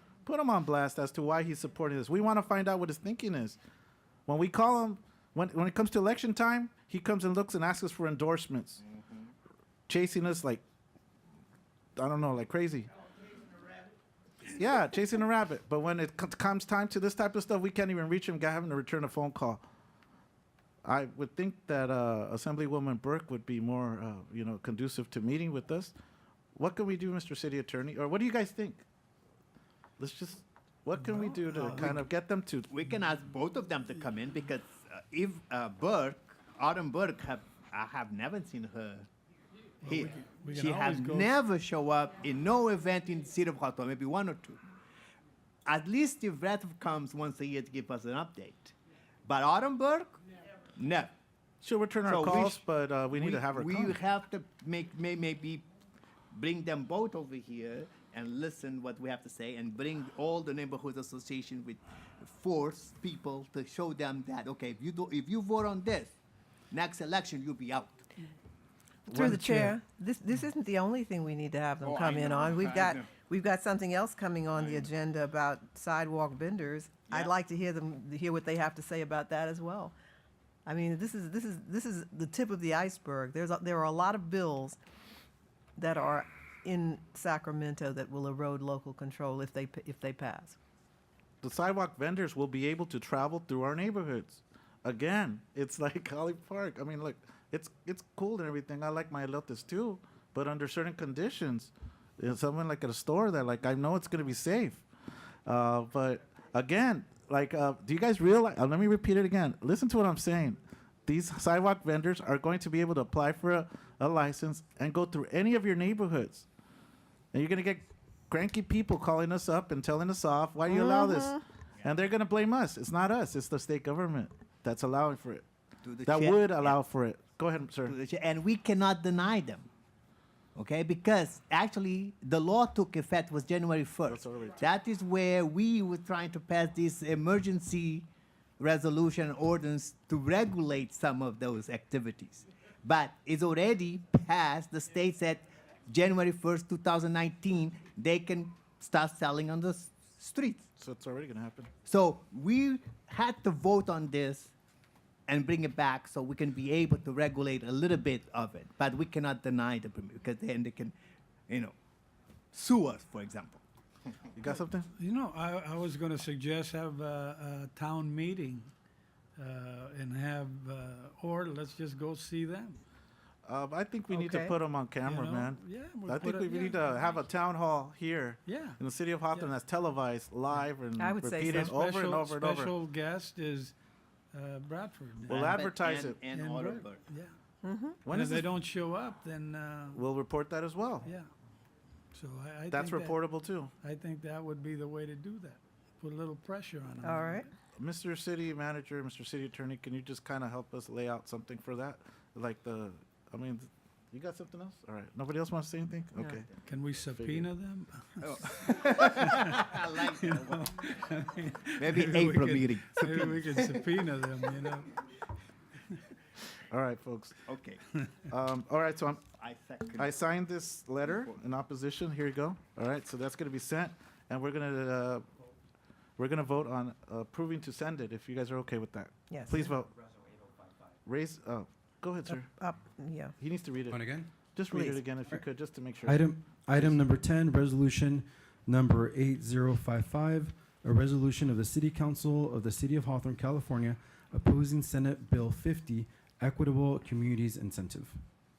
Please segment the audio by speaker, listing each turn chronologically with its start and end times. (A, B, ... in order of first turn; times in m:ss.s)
0:00.2-0:03.6 A
0:04.3-0:08.8 A
0:09.9-0:10.6 A
0:12.0-0:12.9 A
0:14.5-0:19.6 A
0:20.8-0:25.9 A
0:26.5-0:28.8 A
0:30.0-0:32.7 A
0:31.0-0:31.9 B
0:32.7-0:39.1 C
0:39.8-0:41.3 B
0:39.8-0:44.6 C
0:45.6-0:48.7 C
0:49.2-0:50.2 C
0:50.8-0:51.1 C
0:51.6-0:54.0 A
0:52.0-0:55.6 C
0:56.3-1:06.1 C
1:06.7-1:08.0 C
1:09.1-1:19.9 D
1:09.1-1:09.8 A
1:11.8-1:13.1 C
1:14.5-1:14.9 C
1:17.1-1:17.3 C
1:20.6-1:24.8 D
1:25.8-1:30.6 D
1:31.4-1:44.8 A
1:45.4-1:56.5 A
1:57.3-2:05.4 A
2:05.8-2:06.8 C
2:06.0-2:07.9 A
2:07.8-2:09.7 C
2:10.5-2:18.1 C
2:14.1-2:14.6 A
2:18.6-2:30.7 C
2:30.8-2:31.7 A
2:31.8-2:34.5 C
2:35.3-2:40.9 C
2:41.5-2:41.7 C
2:42.5-2:43.6 C
2:44.3-2:44.9 A
2:45.0-2:48.7 B
2:49.4-2:52.8 B
2:53.4-3:02.7 A
2:54.1-2:54.6 D
2:55.0-2:57.1 B
2:58.4-2:58.8 B
3:01.0-3:01.7 D
3:01.5-3:03.7 B
3:04.3-3:05.6 B
3:05.3-3:06.2 A
3:05.3-3:07.0 C
3:06.3-3:07.3 B
3:07.6-3:08.0 D
3:08.0-3:08.5 A
3:08.1-3:10.0 B
3:09.9-3:11.1 A
3:11.0-3:11.3 B
3:12.1-3:13.2 B
3:12.7-3:13.7 A
3:13.8-3:17.5 B
3:17.0-3:17.5 D
3:17.8-3:26.4 A
3:26.2-3:26.4 D
3:26.6-3:35.0 B
3:27.1-3:27.5 A
3:28.2-3:30.7 C
3:31.8-3:33.8 C
3:36.7-3:37.4 A
3:37.4-3:37.8 C
3:38.2-3:39.2 A
3:39.3-3:40.1 C
3:40.0-3:45.2 A
3:46.2-3:49.9 A
3:49.3-3:49.7 D
3:51.0-3:52.5 A
3:52.3-3:53.3 D
3:53.4-3:57.0 A
3:53.9-3:54.3 E
3:54.7-3:55.0 D
3:56.0-4:08.2 E